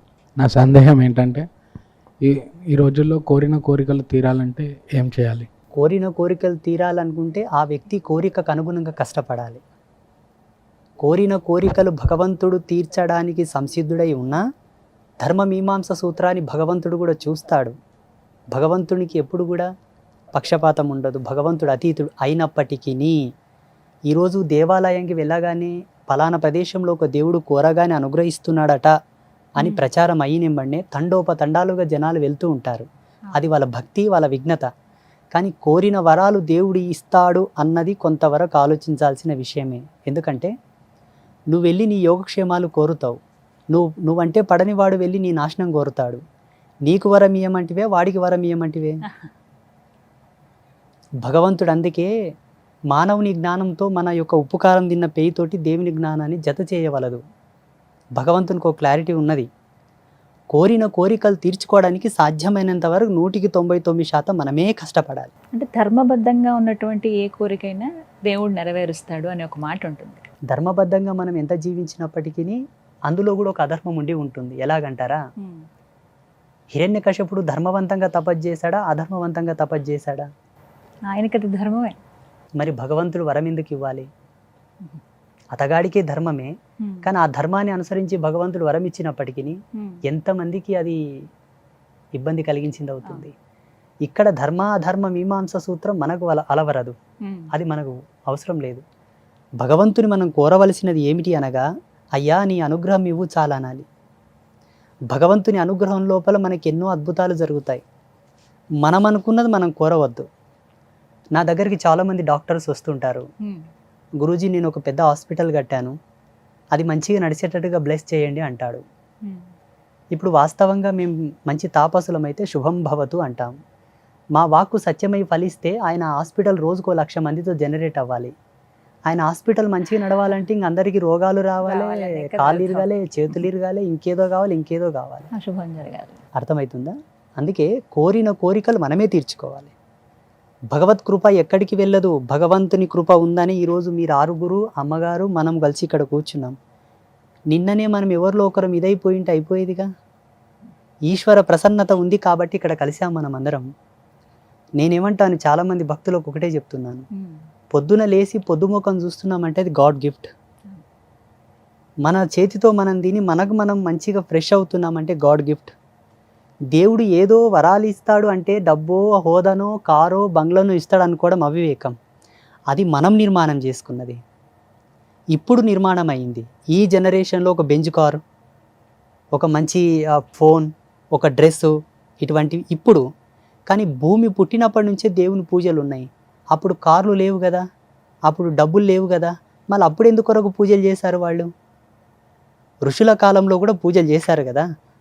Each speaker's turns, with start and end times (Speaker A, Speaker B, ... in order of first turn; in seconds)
Speaker A: 0.4-1.5, 2.3-5.5
Speaker B: 5.8-9.6, 11.0-14.4, 15.2-17.7, 18.6-19.7, 20.4-23.2, 24.1-28.9, 29.6-34.7, 35.3-40.5, 41.5-43.2, 43.7-46.2, 46.9-49.0, 51.2-52.1, 52.9-57.2, 58.2-59.5, 60.5-65.3, 70.5-72.6, 73.1-75.2, 76.7-80.3, 82.6-84.1, 85.5-86.5, 87.0-91.0, 92.2-93.3, 94.0-97.0, 97.5-98.8, 99.6-101.7, 102.2-103.9, 105.1-107.8, 108.8-110.3, 111.4-113.2, 114.2-115.9, 116.7-118.8, 120.1-123.5, 124.4-128.3, 129.1-135.3, 136.4-139.7, 140.7-146.6, 147.5-149.9, 151.1-153.7, 154.8-157.1, 157.7-160.3, 162.1-165.7, 166.7-172.0, 172.7-174.2, 175.3-178.2, 179.3-183.0, 183.7-187.6, 188.3-191.5, 192.9-194.7
Speaker C: 65.5-70.3, 75.4-75.7, 81.1-82.0, 86.8-87.1, 89.8-90.0, 97.2-97.5, 113.4-113.7, 119.2-119.5, 131.6-132.9, 135.3-136.2, 157.1-157.5